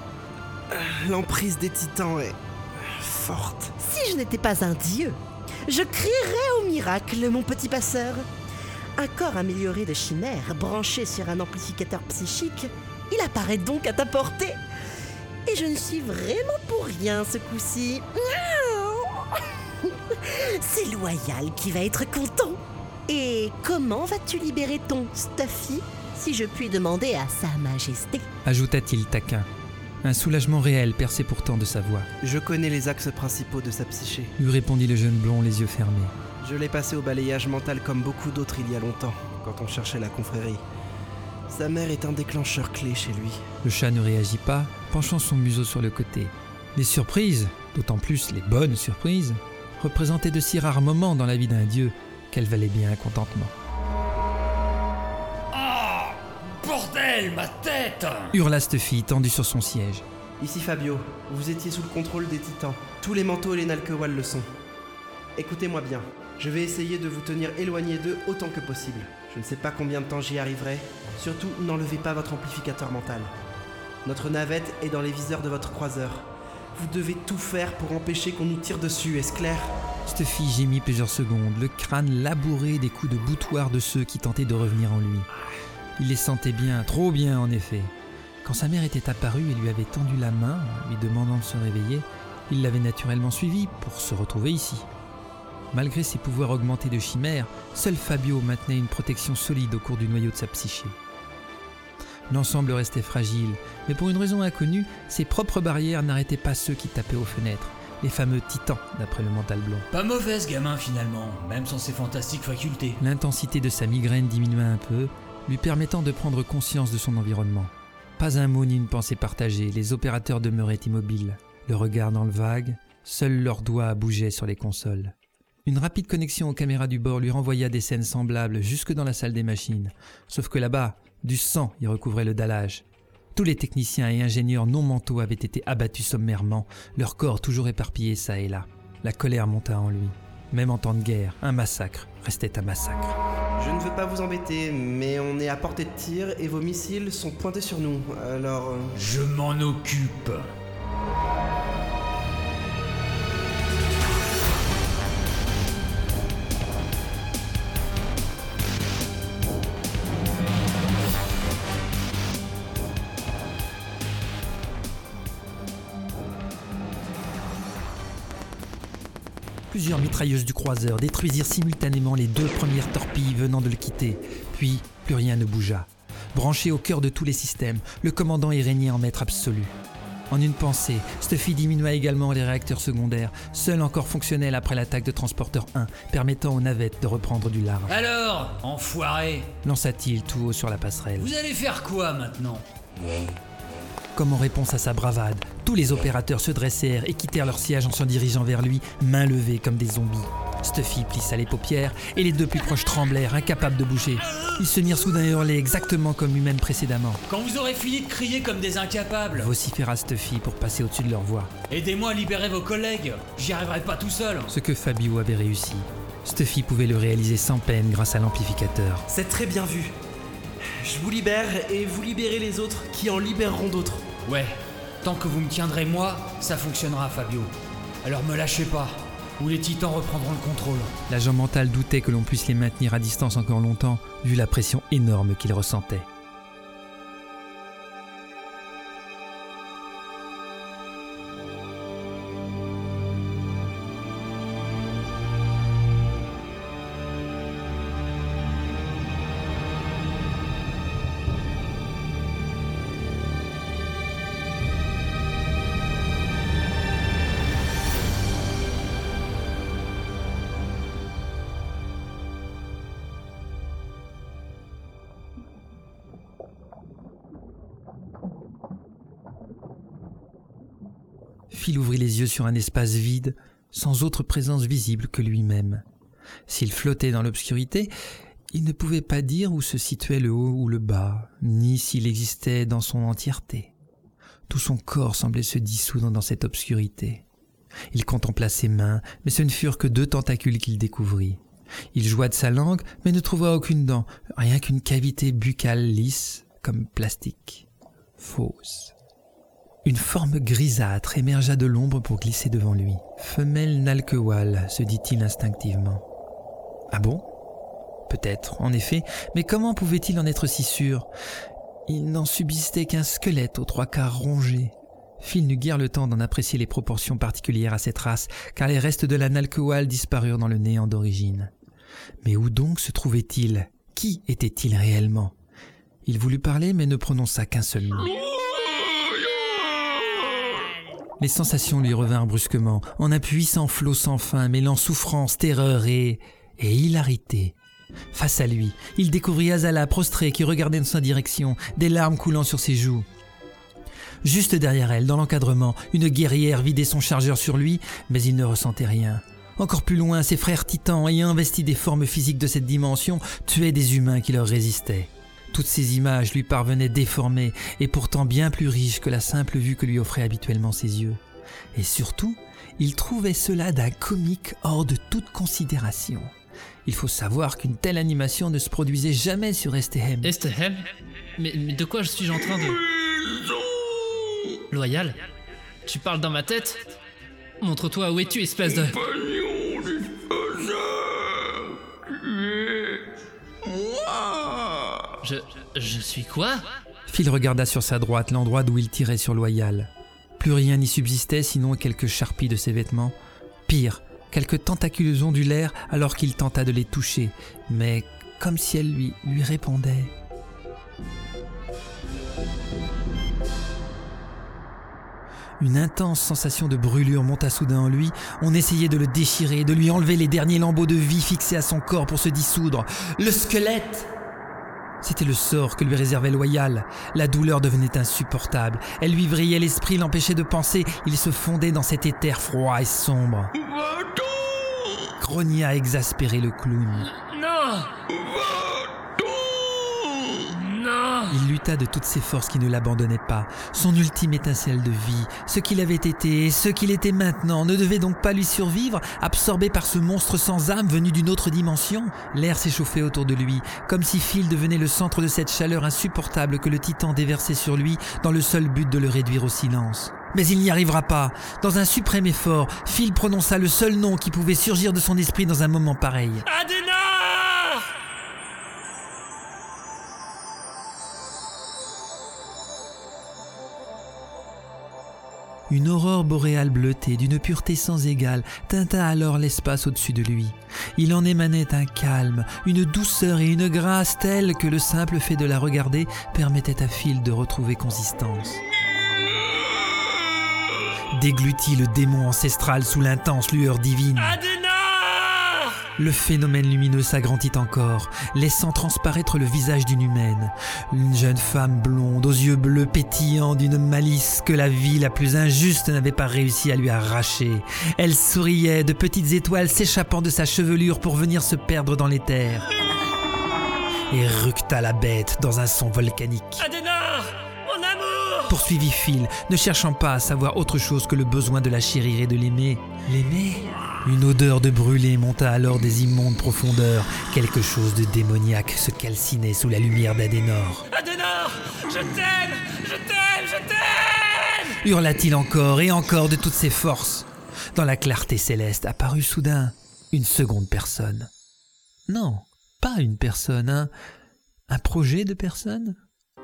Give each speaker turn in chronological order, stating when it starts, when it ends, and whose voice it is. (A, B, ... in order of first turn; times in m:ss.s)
0:00.7-0:03.7 A
0:03.8-0:08.3 B
0:09.0-0:14.6 B
0:15.5-0:28.2 B
0:28.4-0:29.5 C
0:30.0-0:32.1 C
0:32.2-0:34.3 A
0:34.4-0:36.1 C
0:36.4-0:40.6 A
0:41.5-0:43.4 A
0:43.6-0:53.5 C
0:55.5-0:58.3 D
0:58.3-1:00.0 C
1:00.4-1:04.5 A
1:05.4-1:13.3 A
1:14.0-1:19.7 A
1:20.1-1:25.3 C
1:26.0-1:34.9 C
1:35.7-1:41.0 C
1:42.3-1:49.9 C
1:49.9-1:53.0 D
1:53.0-2:05.2 C
2:05.7-2:12.8 C
2:13.4-2:23.2 C
2:23.6-2:29.0 A
2:29.0-2:30.5 D
2:49.7-2:59.7 C
3:00.3-3:08.0 C
3:07.9-3:09.5 D
3:09.6-3:11.3 C
3:11.2-3:12.6 D
3:14.2-3:27.2 C
3:27.3-3:29.5 D
3:29.3-3:31.5 C
3:31.7-3:34.5 D
3:34.5-3:39.0 C
3:39.1-3:39.9 A
3:40.7-3:44.0 A
3:44.2-3:51.0 D
3:51.1-3:56.1 C
4:31.5-4:35.8 C
4:36.5-4:37.9 C
4:38.5-4:43.7 C
4:44.5-4:47.2 C
4:47.9-4:51.4 C
4:51.9-4:57.7 C
4:58.2-4:58.9 C
4:59.8-5:06.0 C
5:06.9-5:07.3 C
5:08.1-5:11.1 C
5:11.9-5:21.5 C
5:22.2-5:25.3 C
5:26.0-5:28.2 C
5:31.2-5:37.6 C
5:38.1-5:43.1 C
5:44.2-6:01.2 C
6:01.8-6:06.3 C
6:06.9-6:10.3 C
6:10.2-6:10.8 E
6:11.4-6:12.8 E
6:14.7-6:15.2 E
6:15.9-6:17.0 E
6:17.6-6:19.0 E
6:25.2-6:26.6 E
6:27.1-6:33.2 C
6:33.7-6:40.1 C
6:45.6-6:54.1 C
6:55.0-7:03.5 C
7:05.2-7:07.1 C
7:11.3-7:36.5 C
7:45.7-7:58.6 C
8:01.1-8:04.4 C
8:06.0-8:22.7 C
8:24.1-8:26.6 C
8:28.5-8:40.9 C
8:44.8-8:51.3 C
8:52.1-8:53.9 C
8:54.7-8:56.0 C